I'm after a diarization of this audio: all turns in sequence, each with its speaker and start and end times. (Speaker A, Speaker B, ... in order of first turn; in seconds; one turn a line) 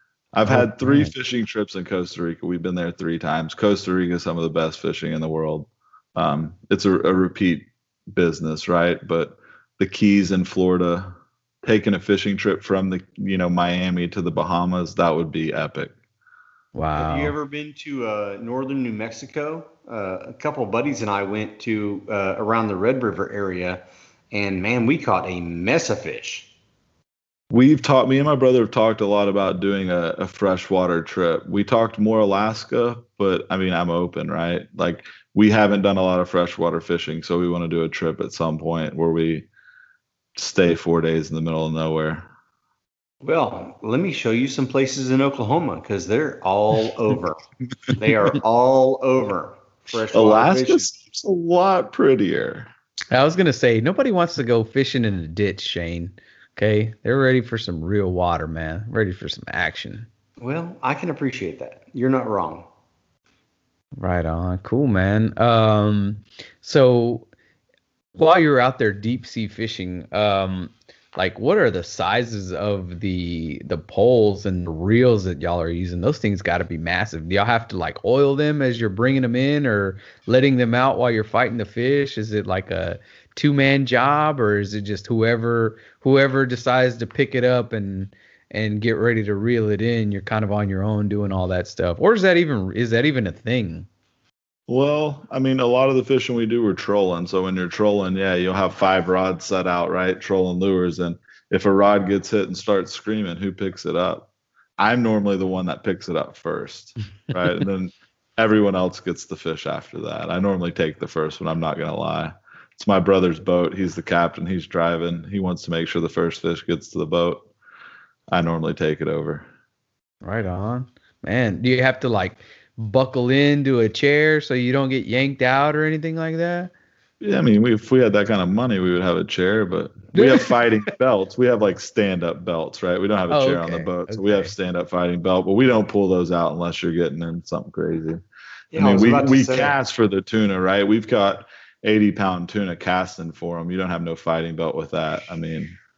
Speaker A: 0.3-15.9
Speaker B: 0.4-1.1
Speaker B: 16.7-17.3
Speaker C: 16.9-26.5
Speaker A: 27.5-39.5
Speaker A: 40.3-42.3
Speaker C: 43.2-47.4
Speaker C: 47.9-50.9
Speaker A: 50.1-52.7
Speaker B: 53.1-60.1
Speaker C: 60.4-62.6
Speaker B: 64.0-67.3
Speaker B: 68.2-93.9
Speaker A: 94.7-117.5
Speaker A: 118.3-119.5
Speaker B: 120.2-126.7
Speaker A: 127.2-138.2
Speaker B: 130.1-130.5
Speaker B: 133.3-134.5
Speaker C: 138.7-139.8
Speaker A: 138.7-145.8